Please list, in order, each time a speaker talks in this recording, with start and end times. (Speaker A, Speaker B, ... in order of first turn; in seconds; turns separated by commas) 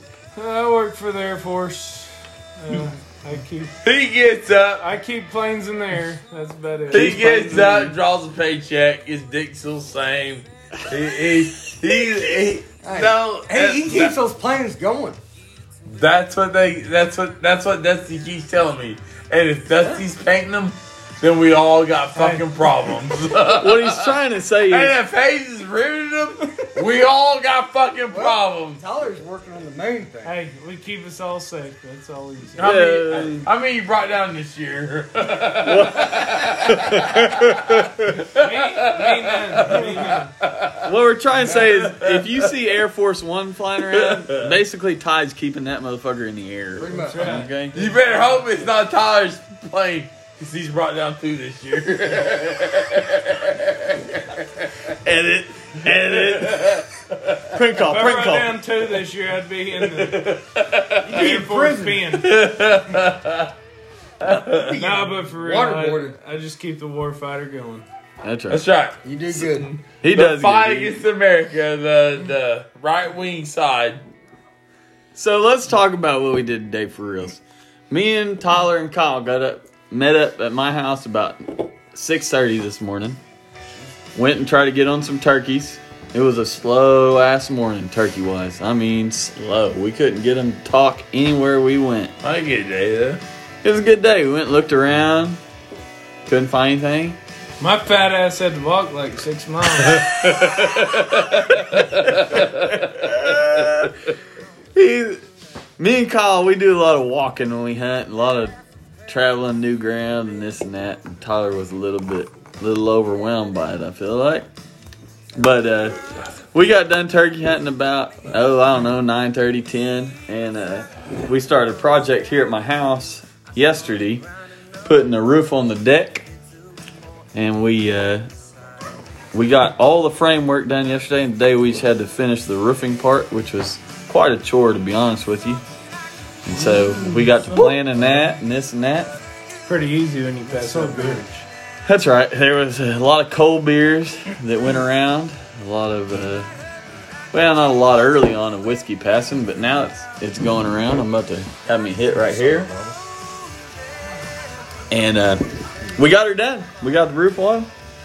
Speaker A: 0.3-3.7, Speaker B: 3.8-4.8, Speaker A: 4.8-7.9, Speaker C: 6.9-7.9, Speaker B: 6.9-14.2, Speaker D: 12.8-15.2, Speaker B: 15.8-24.1, Speaker A: 22.1-22.6, Speaker C: 23.4-25.0, Speaker B: 24.7-28.8, Speaker D: 28.1-30.4, Speaker A: 30.2-32.7, Speaker B: 32.6-40.9, Speaker C: 32.6-33.5, Speaker C: 35.6-38.1, Speaker A: 38.2-40.3, Speaker C: 40.8-47.8, Speaker B: 41.5-42.5, Speaker B: 43.9-44.5, Speaker D: 46.7-47.5, Speaker A: 46.9-48.5, Speaker B: 47.7-54.9, Speaker C: 55.0-56.8, Speaker B: 55.9-57.6, Speaker C: 57.5-58.6, Speaker A: 57.9-60.2, Speaker B: 59.9-61.2, Speaker D: 61.0-62.1, Speaker A: 61.1-62.4, Speaker B: 62.1-63.5, Speaker B: 64.2-64.7, Speaker D: 64.5-66.1, Speaker A: 64.8-67.8, Speaker C: 68.2-68.6, Speaker B: 68.5-74.0, Speaker D: 69.0-69.7, Speaker C: 70.0-71.0, Speaker C: 75.1-83.2, Speaker C: 84.1-92.2, Speaker B: 92.2-93.2, Speaker C: 93.6-95.4, Speaker C: 96.2-97.2, Speaker A: 97.6-100.1, Speaker B: 99.9-103.2, Speaker C: 102.1-104.0, Speaker C: 104.7-105.2, Speaker C: 105.8-108.5, Speaker C: 109.1-114.5, Speaker C: 115.3-124.2, Speaker C: 124.8-126.3, Speaker C: 127.3-128.3, Speaker C: 129.3-135.6, Speaker C: 136.4-139.1, Speaker A: 137.0-138.3, Speaker A: 139.6-141.4, Speaker D: 140.5-141.2, Speaker C: 141.8-146.5, Speaker C: 147.3-152.7, Speaker D: 152.1-153.0, Speaker C: 154.9-157.7